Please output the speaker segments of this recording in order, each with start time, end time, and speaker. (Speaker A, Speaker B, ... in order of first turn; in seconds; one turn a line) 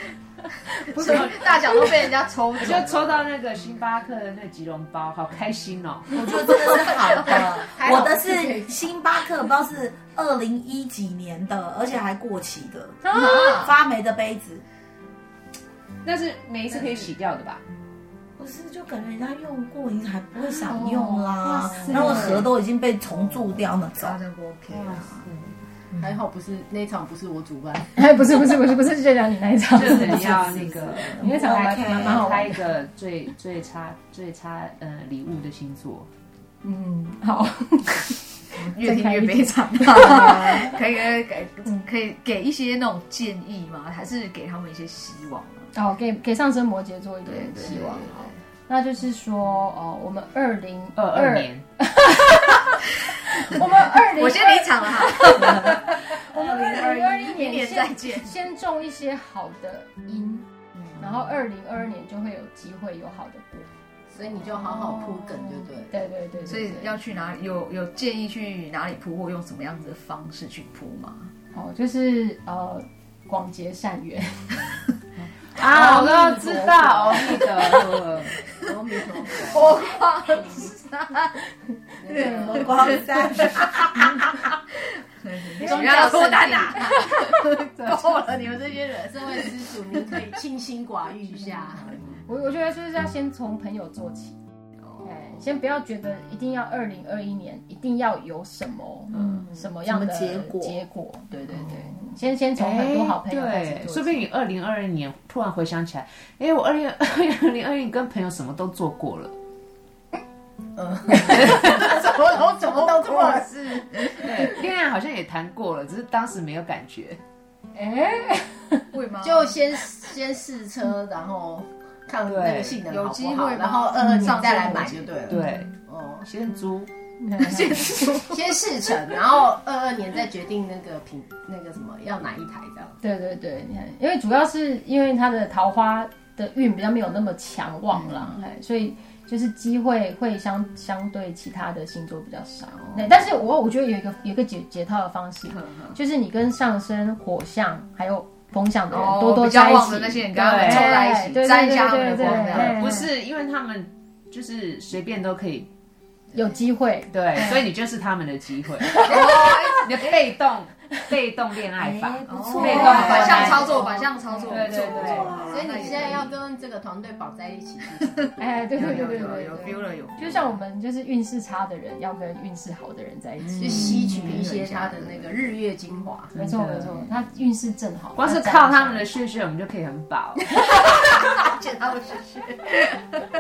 Speaker A: 0.7-1.8
Speaker B: 0.9-3.3
Speaker C: 0.9-1.5
Speaker C: 2.6-6.3
Speaker D: 6.1-14.6
Speaker B: 6.4-7.5
Speaker E: 7.3-8.9
Speaker A: 13.0-13.7
Speaker B: 13.1-13.6
Speaker C: 16.0-17.6
Speaker D: 18.4-24.2
Speaker A: 20.7-22.4
Speaker C: 20.9-22.5
Speaker C: 23.1-23.6
Speaker B: 23.9-25.3
Speaker C: 24.7-25.6
Speaker E: 26.0-28.0
Speaker A: 27.9-32.7
Speaker C: 29.7-36.1
Speaker E: 29.9-31.2
Speaker D: 31.2-32.2
Speaker A: 36.6-40.8
Speaker B: 38.5-45.7
Speaker A: 45.7-52.8
Speaker B: 47.2-48.4
Speaker C: 51.0-51.6
Speaker A: 53.4-63.7
Speaker B: 53.8-58.3
Speaker D: 55.3-56.9
Speaker E: 64.1-66.1
Speaker A: 65.9-67.0
Speaker B: 66.5-71.3
Speaker A: 71.5-74.7
Speaker C: 75.4-78.4
Speaker A: 75.6-77.2
Speaker E: 78.6-80.7
Speaker B: 79.3-81.4
Speaker E: 82.0-83.2
Speaker B: 82.1-83.9
Speaker D: 82.5-84.2
Speaker B: 85.2-87.9
Speaker E: 85.6-87.1
Speaker A: 85.7-86.0
Speaker E: 87.7-92.2
Speaker A: 92.2-94.4
Speaker A: 95.0-104.3
Speaker B: 99.1-99.4
Speaker D: 99.8-100.8
Speaker C: 102.5-109.3
Speaker E: 110.8-113.8
Speaker B: 111.7-114.5
Speaker C: 114.2-117.2
Speaker A: 117.7-118.9
Speaker B: 118.9-119.7
Speaker E: 119.2-126.3
Speaker C: 122.2-122.8
Speaker B: 122.8-125.2
Speaker C: 125.3-126.9
Speaker A: 127.2-128.1
Speaker B: 127.4-128.7
Speaker E: 128.3-133.0
Speaker A: 133.0-153.1
Speaker E: 137.9-138.4
Speaker B: 145.5-146.0
Speaker B: 148.9-153.0
Speaker C: 150.4-150.9
Speaker C: 151.9-155.7
Speaker A: 156.3-157.7
Speaker C: 157.1-163.9
Speaker A: 158.8-159.4
Speaker B: 159.0-160.2
Speaker D: 161.8-165.9
Speaker B: 162.2-166.3
Speaker A: 162.6-163.6
Speaker C: 164.5-165.3
Speaker E: 165.3-169.3
Speaker A: 168.4-174.2
Speaker B: 168.7-170.6
Speaker B: 173.6-175.4
Speaker E: 173.6-176.3
Speaker C: 176.3-177.1
Speaker A: 176.3-179.1
Speaker C: 178.2-180.4
Speaker B: 180.6-183.2